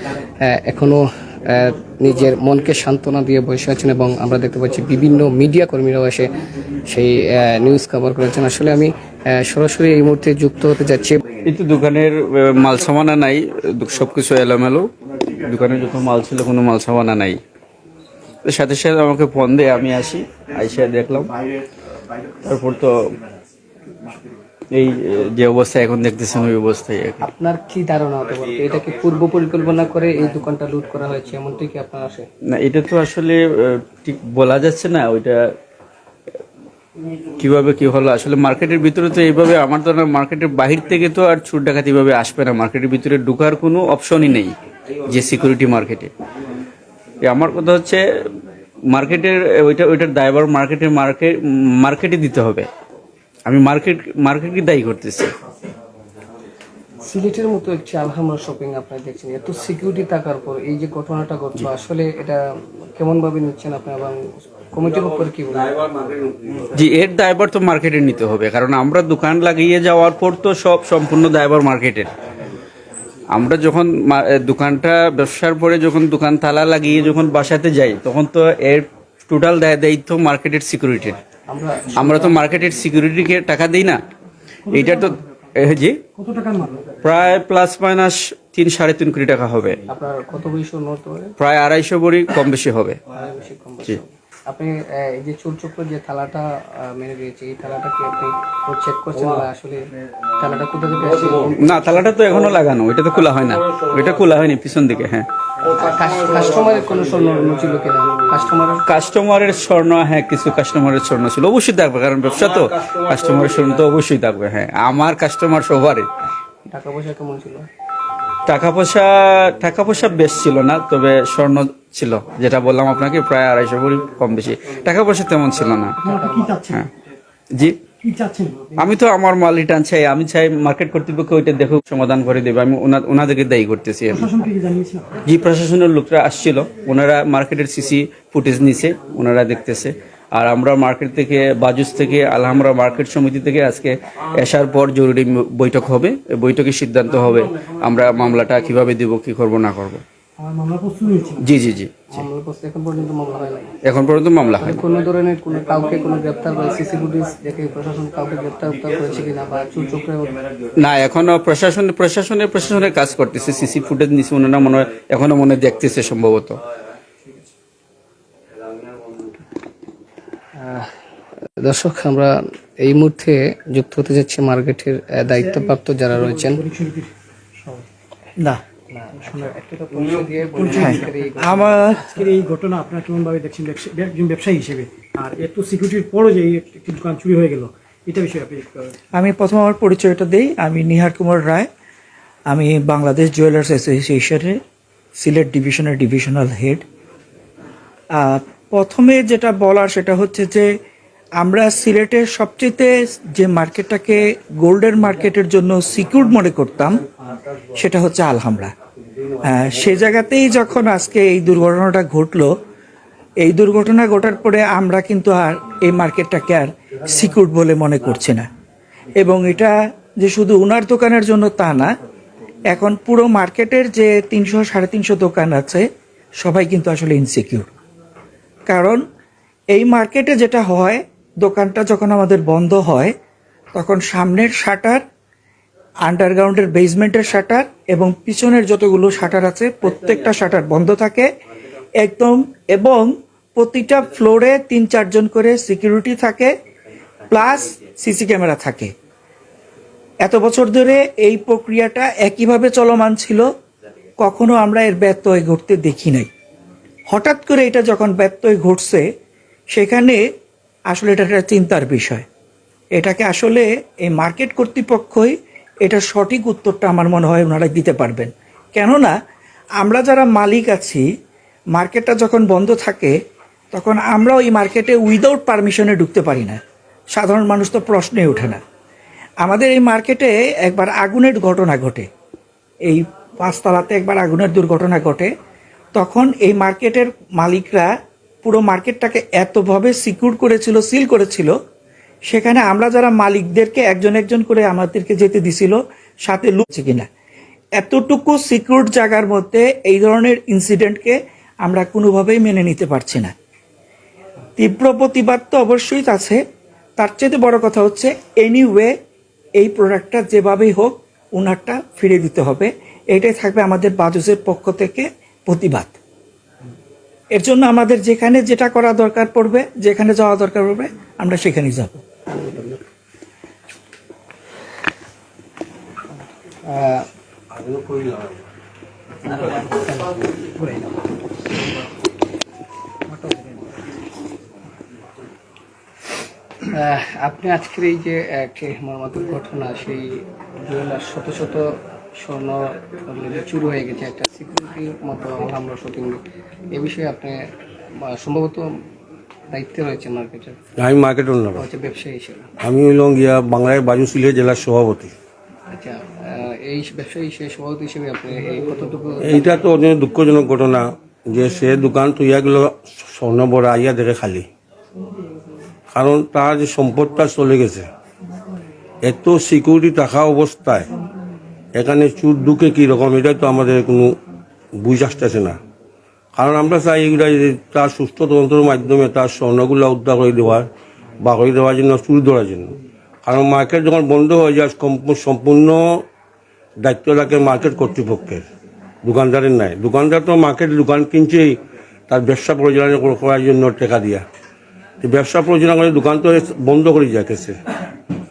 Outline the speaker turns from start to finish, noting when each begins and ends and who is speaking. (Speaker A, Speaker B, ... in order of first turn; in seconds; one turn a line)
Speaker A: 0.4-6.3
Speaker A: 6.9-11.2
Speaker B: 11.4-14.9
Speaker B: 15.4-17.4
Speaker B: 18.4-21.3
Speaker B: 22.4-23.1
Speaker B: 24.7-27.3
Speaker A: 27.2-32.3
Speaker B: 32.5-35.4
Speaker B: 37.4-44.5
Speaker B: 45.1-46.1
Speaker B: 47.3-48.0
Speaker B: 48.9-52.7
Speaker B: 53.5-55.4
Speaker A: 57.0-65.8
Speaker C: 65.8-66.6
Speaker B: 66.7-72.1
Speaker B: 73.3-81.2
Speaker A: 81.5-82.4
Speaker B: 81.9-84.0
Speaker D: 84.7-85.3
Speaker B: 84.7-86.0
Speaker D: 86.2-87.0
Speaker B: 87.0-89.8
Speaker A: 89.9-91.3
Speaker B: 91.4-93.0
Speaker A: 93.1-102.1
Speaker C: 101.1-101.5
Speaker B: 101.6-105.3
Speaker C: 103.4-104.1
Speaker C: 105.6-108.3
Speaker A: 105.8-108.8
Speaker B: 108.9-116.1
Speaker C: 112.3-113.9
Speaker A: 116.7-117.7
Speaker B: 118.5-126.0
Speaker A: 126.0-126.6
Speaker D: 126.0-126.9
Speaker D: 128.0-128.8
Speaker B: 128.8-134.3
Speaker D: 134.1-135.2
Speaker B: 135.2-150.0
Speaker D: 150.4-151.5
Speaker B: 151.4-152.2
Speaker A: 152.1-153.7
Speaker B: 153.8-154.8
Speaker A: 154.6-160.4
Speaker B: 160.8-166.6
Speaker A: 170.6-170.9
Speaker A: 171.6-176.6
Speaker D: 175.3-177.9
Speaker A: 178.9-181.9
Speaker D: 179.2-181.3
Speaker E: 180.8-182.2
Speaker D: 181.9-189.0
Speaker E: 189.2-191.7
Speaker E: 192.5-194.6
Speaker E: 195.2-196.8
Speaker E: 198.2-200.7
Speaker E: 201.4-207.0
Speaker E: 207.7-208.7
Speaker E: 209.4-212.5
Speaker E: 213.4-218.5
Speaker E: 219.2-221.9
Speaker E: 222.7-225.9
Speaker E: 226.4-227.7
Speaker E: 228.7-229.0
Speaker E: 229.7-233.1
Speaker E: 233.8-235.0
Speaker E: 236.1-241.3
Speaker E: 242.0-246.5
Speaker E: 247.3-248.9
Speaker E: 250.2-253.4
Speaker E: 254.2-256.3
Speaker E: 257.1-259.1
Speaker E: 259.7-260.2
Speaker E: 260.9-262.2
Speaker E: 262.9-269.1
Speaker E: 269.8-271.1
Speaker E: 271.8-273.2
Speaker E: 273.7-276.6
Speaker E: 277.1-278.6
Speaker E: 279.4-282.1
Speaker E: 282.9-285.3
Speaker E: 285.9-291.6
Speaker E: 292.3-297.1
Speaker E: 297.8-303.3
Speaker E: 304.6-306.4
Speaker E: 307.0-308.9
Speaker E: 309.6-316.0
Speaker E: 317.4-322.0
Speaker A: 322.3-322.8
Speaker A: 326.6-327.1
Speaker C: 327.5-328.4
Speaker A: 329.3-330.8
Speaker D: 329.4-329.9
Speaker A: 336.7-348.8
Speaker A: 349.5-350.6
Speaker C: 350.8-351.6
Speaker A: 351.6-352.5
Speaker C: 352.6-355.1
Speaker A: 355.7-359.6
Speaker C: 359.2-364.5
Speaker C: 365.9-367.9
Speaker C: 369.0-370.9
Speaker C: 371.8-374.2
Speaker C: 374.8-375.6
Speaker C: 376.4-380.7
Speaker C: 381.2-386.0
Speaker C: 386.8-388.4
Speaker C: 389.0-394.2
Speaker C: 395.0-397.6